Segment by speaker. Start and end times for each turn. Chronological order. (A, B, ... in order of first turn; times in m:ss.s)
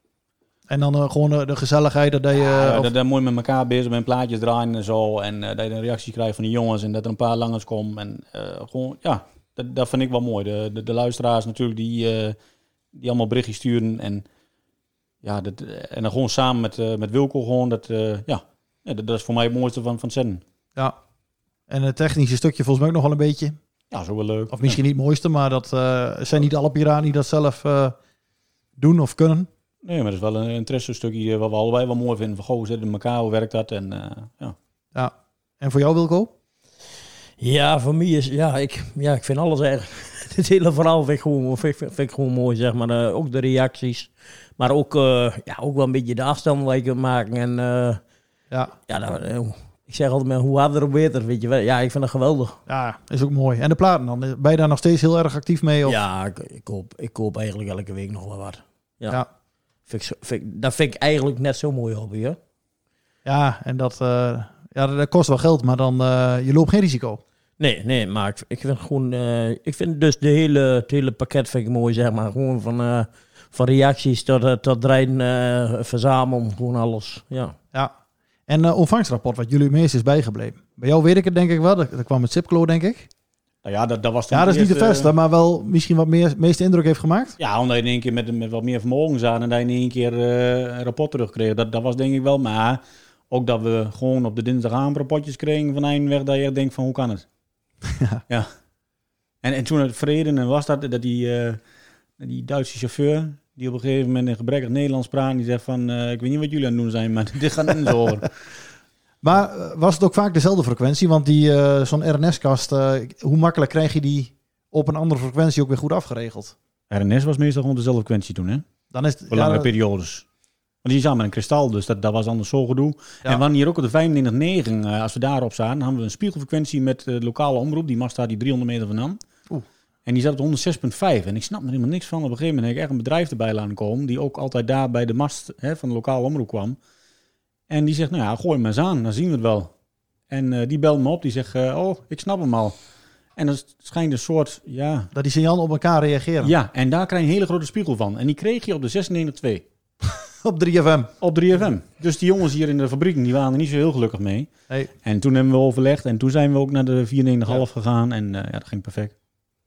0:00.7-0:02.9 A
0:02.4-0:12.4 B
0:12.9-0:14.2 B
0:15.2-0:20.4 B
0:21.7-0:23.6 A
0:23.9-0:24.8 B
0:24.5-0:28.0 A
0:28.8-0:29.5 A
0:29.8-0:34.5 B
0:34.9-0:36.3 A
0:37.4-0:48.0 C
0:48.9-0:52.6 C
0:52.7-0:56.0 A
0:55.8-0:59.2 C
0:59.9-1:02.4 C
1:03.2-1:07.2 A
1:07.6-1:17.5 C
1:18.5-1:23.1 A
1:23.6-1:25.1 B
1:24.3-1:27.3 A
1:27.4-1:37.2 B
1:37.8-1:38.2 A
1:39.4-1:41.6 B
1:42.2-1:48.3 B
1:49.2-1:56.5 A
1:56.9-1:58.6 B
1:58.9-1:59.7 A
1:59.3-2:00.2 B
2:00.8-2:09.2 B
2:10.0-2:16.8 B
2:17.7-2:19.7 B
2:20.3-2:22.7 B
2:23.4-2:25.1 B
2:25.1-2:26.5 A
2:26.4-2:29.6 B
2:30.1-2:31.1 A
2:31.2-2:34.5 B
2:35.0-2:39.1 B